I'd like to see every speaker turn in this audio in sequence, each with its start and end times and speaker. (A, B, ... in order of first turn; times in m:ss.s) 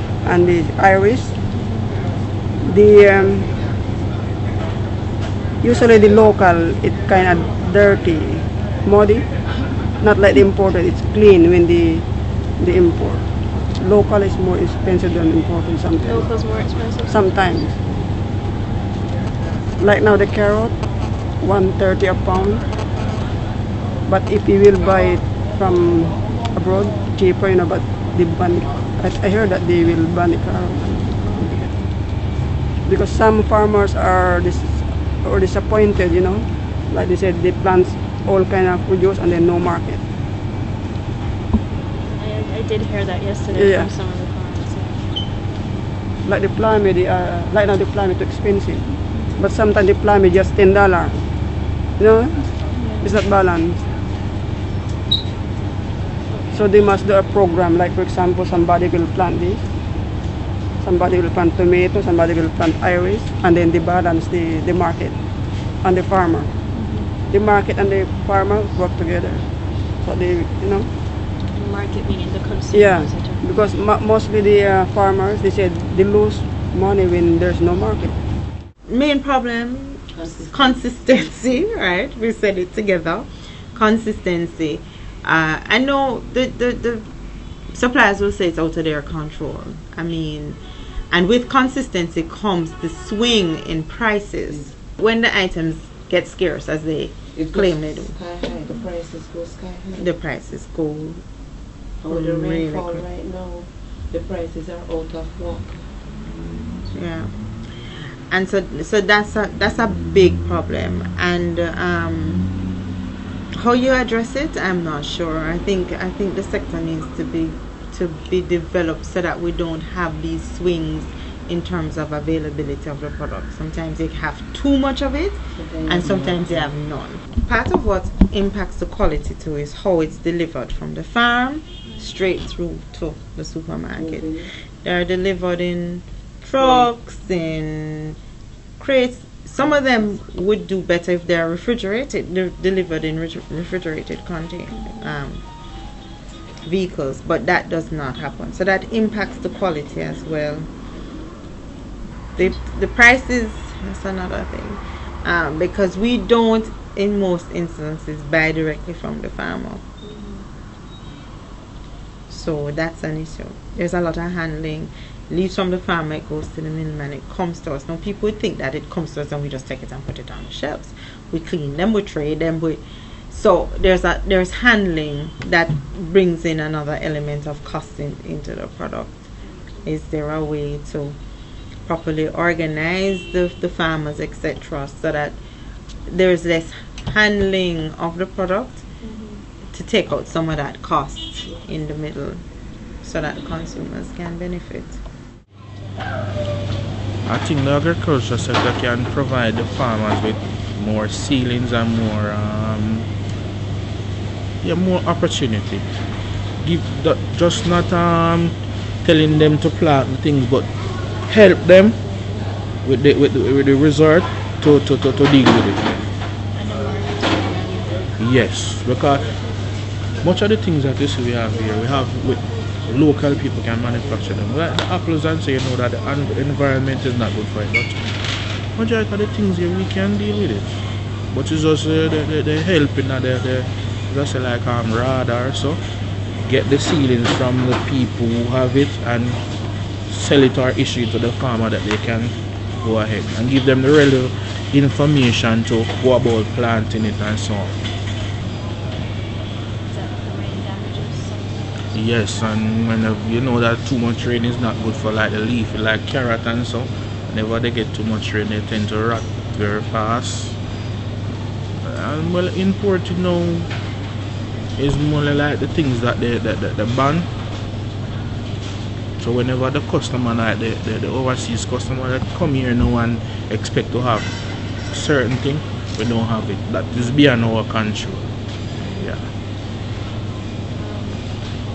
0:00.2-0:01.4 A
0:01.5-0:02.0 B
0:02.6-0:03.5 A
0:05.6-0:09.3 A
0:10.0-0:12.0 A
0:12.6-0:16.3 A
0:16.0-0:17.5 B
0:17.1-0:17.8 A
0:19.8-0:20.8 A
0:21.4-0:22.6 A
0:24.1-0:31.7 A
0:32.8-0:40.0 A
0:42.1-0:45.1 B
0:43.5-0:43.9 A
0:46.2-0:51.2 A
0:52.0-0:53.8 A
0:52.7-0:53.1 B
0:56.5-0:59.6 A
1:00.8-1:05.2 A
1:05.8-1:06.5 A
1:06.7-1:07.1 B
1:07.3-1:09.4 A
1:10.0-1:10.9 A
1:11.5-1:13.4 B
1:12.7-1:18.2 A
1:18.8-1:38.2 C
1:20.1-1:20.7 D
1:37.3-1:40.1 D
1:40.0-1:41.3 C
1:42.0-1:46.2 D
1:42.1-1:43.0 C
1:46.9-1:52.5 C
1:53.5-2:18.2 C
2:05.5-2:06.7 D
2:14.0-2:14.5 D
2:18.8-2:25.4 C
2:26.6-2:30.7 C
2:32.3-2:39.8 C
2:40.0-2:40.5 B
2:42.3-3:01.2 C
2:59.4-2:59.9 B
3:01.8-3:05.4 C
3:06.0-3:09.0 C
3:09.0-3:09.4 B
3:09.6-3:15.0 C
3:17.2-3:23.1 E
3:24.6-3:25.9 E
3:26.6-3:30.7 E
3:31.2-3:32.2 E
3:32.8-3:36.1 E
3:36.5-3:38.2 B
3:38.2-3:39.4 E
3:40.2-3:55.8 E
3:56.4-3:59.4 E
4:00.1-4:07.8 E
4:09.9-4:12.2 B
4:11.9-4:20.6 E
4:21.8-4:23.7 E
4:24.8-4:27.3 E
4:29.2-4:34.3 E
4:34.8-4:38.3 E
4:38.8-4:39.1 B
4:38.9-4:39.3 E
4:40.7-4:41.3 B